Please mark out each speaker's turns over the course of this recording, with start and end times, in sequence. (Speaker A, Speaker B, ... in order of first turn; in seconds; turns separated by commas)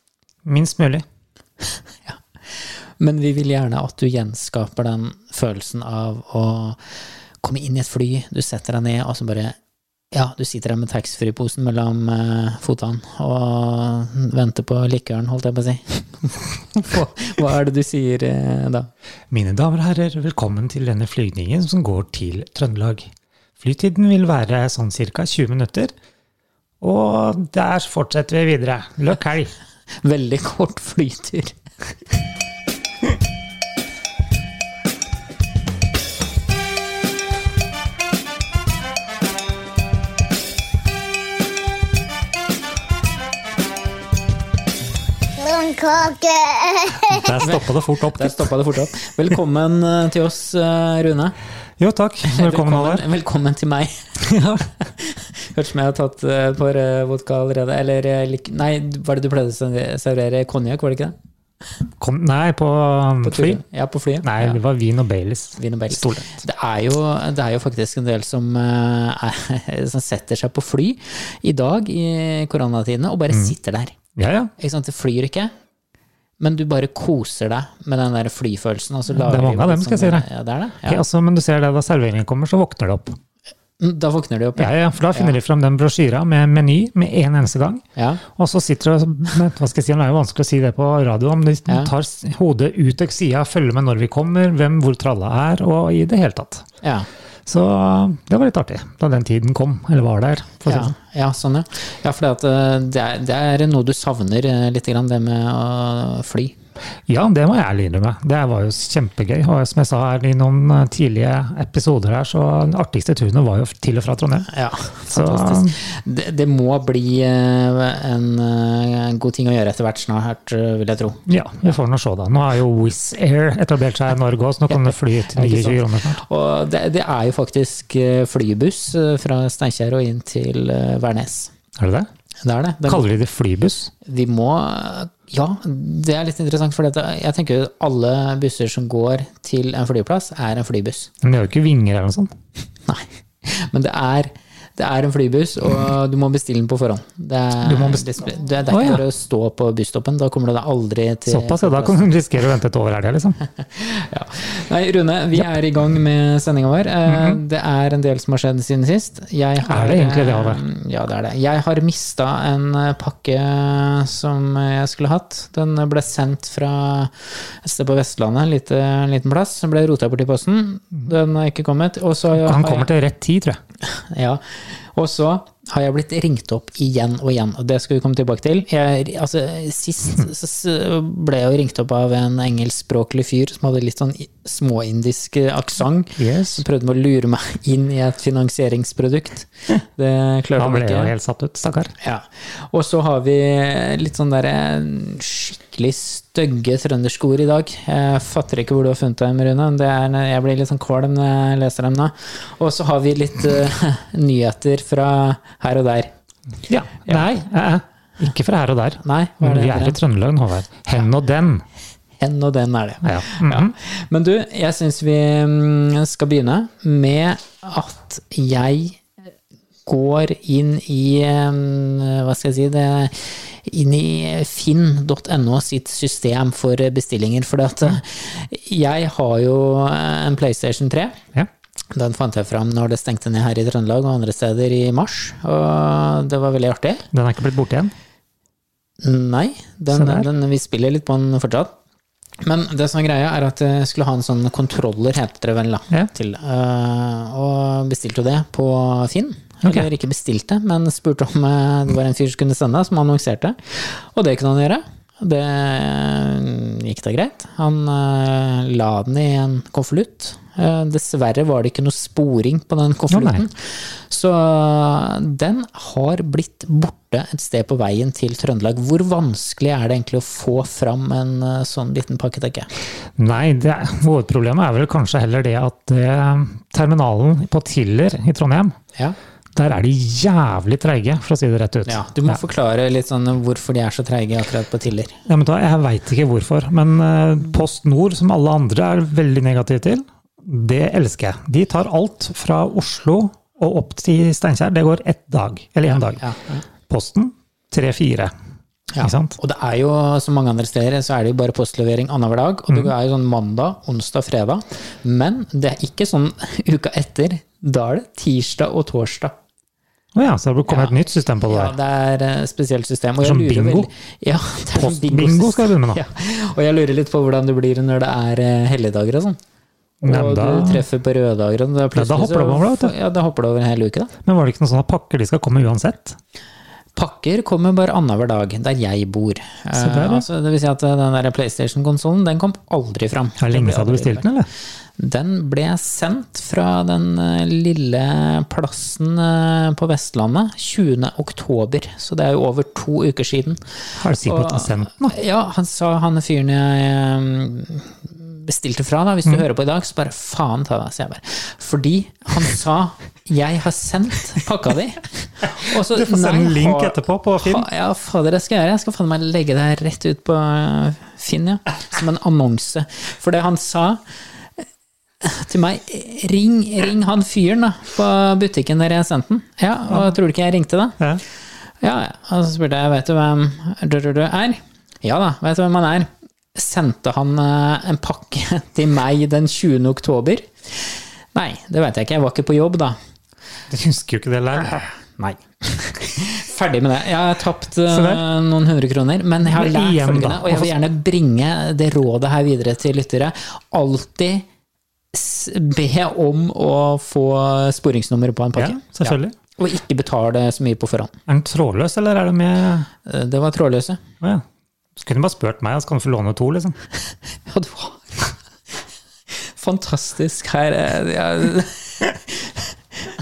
Speaker A: 0.5-1.1, Speaker B: 3.0-6.8, Speaker B: 7.4-9.6, Speaker B: 10.1-18.9, Speaker A: 19.3-25.9, Speaker A: 26.8-29.5, Speaker B: 30.0-31.6, Speaker C: 45.4-47.4, Speaker A: 47.1-48.5, Speaker B: 47.4-51.4, Speaker A: 51.8-53.0, Speaker B: 52.2-54.0, Speaker A: 54.2-54.7, Speaker B: 54.8-61.1, Speaker A: 62.0-63.6, Speaker B: 63.2-64.6, Speaker A: 64.2-66.4, Speaker B: 65.6-74.0, Speaker A: 74.2-74.5, Speaker B: 74.6-75.5, Speaker B: 76.4-81.0, Speaker A: 79.1-80.3, Speaker A: 80.8-83.2, Speaker B: 83.8-85.4, Speaker A: 84.6-96.7, Speaker B: 88.0-88.2, Speaker B: 96.8-97.1, Speaker A: 97.5-100.9, Speaker B: 100.7-106.6, Speaker A: 107.1-114.5, Speaker B: 114.5-121.2, Speaker A: 115.1-115.8, Speaker A: 121.3-126.2, Speaker B: 124.7-131.5, Speaker A: 131.8-132.1, Speaker B: 132.4-133.1, Speaker A: 132.9-133.9, Speaker B: 134.0-141.1, Speaker A: 141.2-142.3, Speaker B: 142.9-152.1, Speaker A: 147.6-149.0, Speaker A: 151.3-153.4, Speaker B: 153.7-172.9, Speaker A: 157.1-157.4, Speaker A: 159.6-160.6, Speaker A: 172.4-173.6, Speaker B: 173.8-191.1, Speaker A: 186.2-186.6, Speaker A: 190.6-191.9, Speaker B: 192.0-206.1, Speaker A: 206.7-211.7, Speaker B: 207.1-207.3, Speaker B: 209.0-210.0, Speaker B: 212.2-219.0, Speaker A: 213.0-213.7, Speaker B: 219.9-231.2, Speaker B: 231.9-237.1, Speaker A: 237.1-237.9, Speaker B: 239.0-241.8, Speaker A: 239.9-240.3, Speaker B: 242.4-272.7, Speaker A: 263.1-263.4, Speaker A: 273.2-278.8, Speaker A: 279.6-282.4, Speaker B: 281.9-285.2, Speaker A: 285.3-296.2, Speaker B: 295.9-296.6, Speaker A: 296.9-298.3, Speaker B: 298.9-309.3, Speaker A: 299.0-299.4, Speaker A: 310.1-311.8, Speaker B: 310.7-319.4, Speaker A: 313.2-313.9, Speaker A: 314.8-316.0, Speaker A: 320.0-320.9, Speaker B: 320.0-324.1, Speaker A: 321.9-322.9, Speaker A: 324.2-326.2, Speaker B: 327.0-334.3, Speaker A: 329.7-330.3, Speaker A: 333.4-334.5, Speaker B: 335.0-343.6, Speaker A: 344.0-345.2, Speaker B: 344.2-364.0, Speaker A: 355.7-357.7, Speaker B: 365.2-371.0, Speaker B: 371.8-383.0, Speaker A: 383.7-384.9, Speaker B: 385.2-394.5, Speaker A: 387.9-388.2, Speaker A: 389.5-390.7, Speaker B: 395.1-401.1, Speaker A: 398.6-399.4, Speaker A: 401.3-402.9, Speaker B: 403.1-404.0, Speaker A: 405.0-406.8, Speaker B: 407.5-408.4, Speaker B: 409.3-412.7